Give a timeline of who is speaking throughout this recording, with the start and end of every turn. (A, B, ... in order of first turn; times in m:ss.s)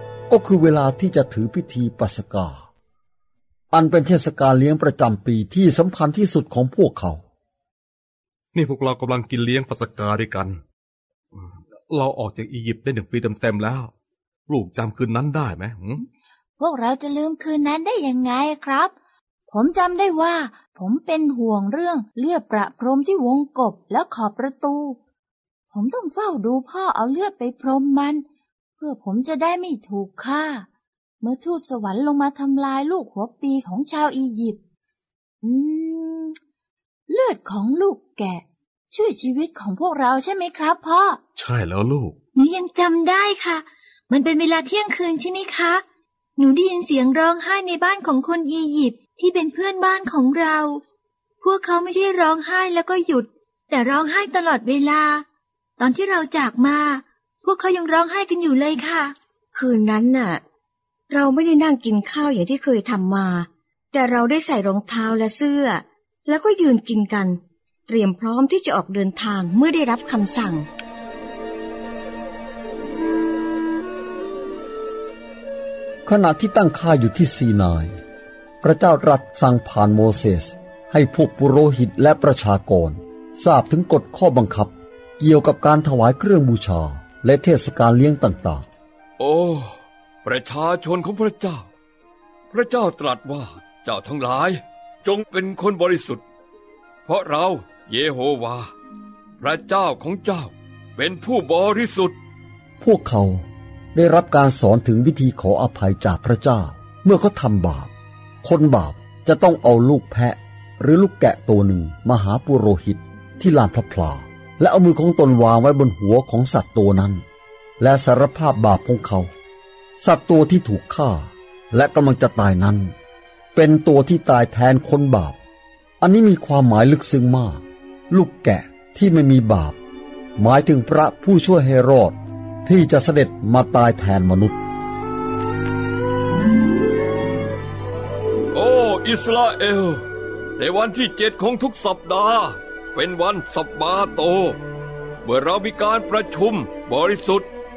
0:00.3-0:02.7 A
0:03.7-0:07.2 A
0:08.5-0:10.6 B
0:11.4-0:13.9 B
0:14.5-0:16.0 B
0:16.6-0:18.9 C
0:19.5-0:25.0 C
0:25.7-0:28.2 C
0:28.8-0:30.7 C
0:31.2-0:34.6 C
0:35.4-0:36.4 C
0:37.1-0:41.2 C
0:41.3-0:42.2 B
0:42.3-0:45.8 D
0:46.4-0:50.8 D
0:51.4-0:55.2 D
0:55.8-0:59.1 D
0:59.5-1:00.4 E
1:01.1-1:10.7 E
1:16.0-1:18.0 A
1:18.6-1:28.7 A
1:29.2-1:31.7 F
1:32.5-1:36.2 F
1:37.0-1:38.7 F
1:39.4-1:42.2 F
1:42.8-1:47.9 A
1:48.4-1:57.2 A
1:57.8-1:59.3 A
2:00.0-2:02.9 A
2:03.5-2:05.4 A
2:06.0-2:09.8 A
2:10.4-2:14.6 A
2:18.5-2:20.0 F
2:20.6-2:24.6 F
2:25.2-2:27.5 F